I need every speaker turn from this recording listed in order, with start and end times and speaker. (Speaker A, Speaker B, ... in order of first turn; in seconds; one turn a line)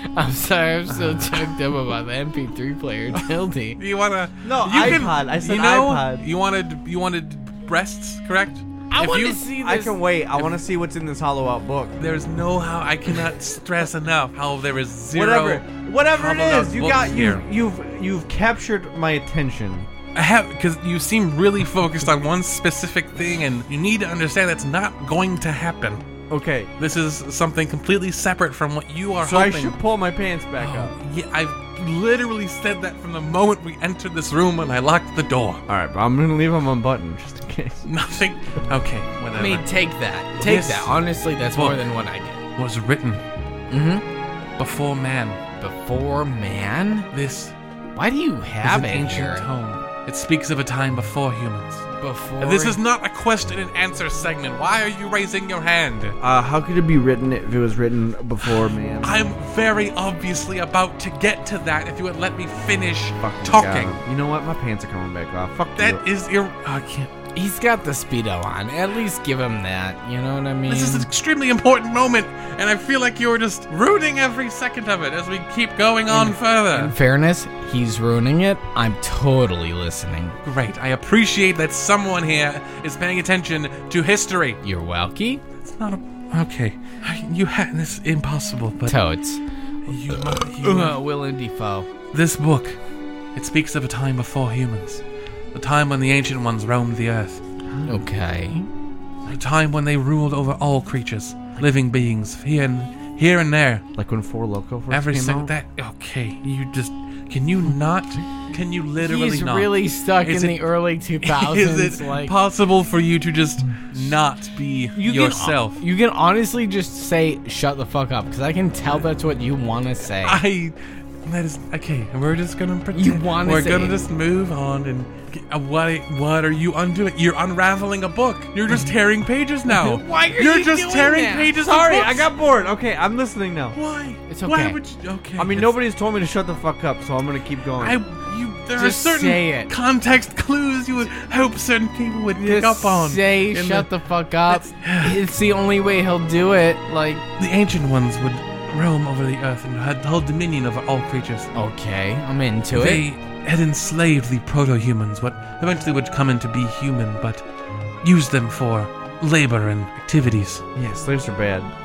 Speaker A: 0.1-3.8
Speaker B: 0.9-1.5
Speaker B: 3.8-9.4
Speaker C: 4.4-6.3
Speaker A: 8.9-10.0
Speaker C: 9.5-11.9
Speaker B: 10.3-10.7
Speaker B: 12.0-17.4
Speaker C: 15.1-19.9
Speaker B: 20.1-26.1
Speaker C: 26.3-26.7
Speaker B: 26.8-29.8
Speaker C: 29.2-31.0
Speaker B: 30.6-35.6
Speaker C: 35.7-37.9
Speaker B: 37.9-39.7
Speaker A: 39.3-42.4
Speaker B: 40.4-41.9
Speaker B: 42.6-43.2
Speaker A: 43.7-44.0
Speaker B: 44.6-45.4
Speaker A: 45.6-47.1
Speaker B: 47.1-47.6
Speaker A: 48.0-49.5
Speaker B: 48.6-51.9
Speaker A: 51.9-52.8
Speaker B: 52.4-56.2
Speaker C: 56.2-59.3
Speaker B: 58.4-64.0
Speaker C: 63.2-66.0
Speaker B: 65.8-67.1
Speaker A: 67.3-71.1
Speaker B: 70.7-76.9
Speaker A: 76.1-80.4
Speaker B: 80.4-84.6
Speaker A: 84.6-85.4
Speaker B: 85.6-89.0
Speaker A: 88.9-89.4
Speaker B: 89.9-91.0
Speaker A: 90.5-91.9
Speaker B: 92.1-92.8
Speaker B: 93.3-97.4
Speaker A: 97.9-98.7
Speaker B: 99.3-103.8
Speaker C: 104.0-105.5
Speaker B: 104.9-110.7
Speaker A: 109.0-112.3
Speaker B: 111.2-115.8
Speaker A: 115.0-120.4
Speaker B: 120.1-132.3
Speaker A: 122.9-124.0
Speaker A: 129.7-131.5
Speaker C: 131.6-133.8
Speaker B: 133.7-135.7
Speaker A: 134.3-134.8
Speaker C: 135.4-138.0
Speaker B: 137.8-143.9
Speaker A: 138.8-139.7
Speaker A: 142.4-147.2
Speaker B: 144.5-145.2
Speaker B: 147.4-151.5
Speaker A: 151.5-153.1
Speaker B: 152.7-157.4
Speaker B: 158.0-160.6
Speaker C: 160.8-161.7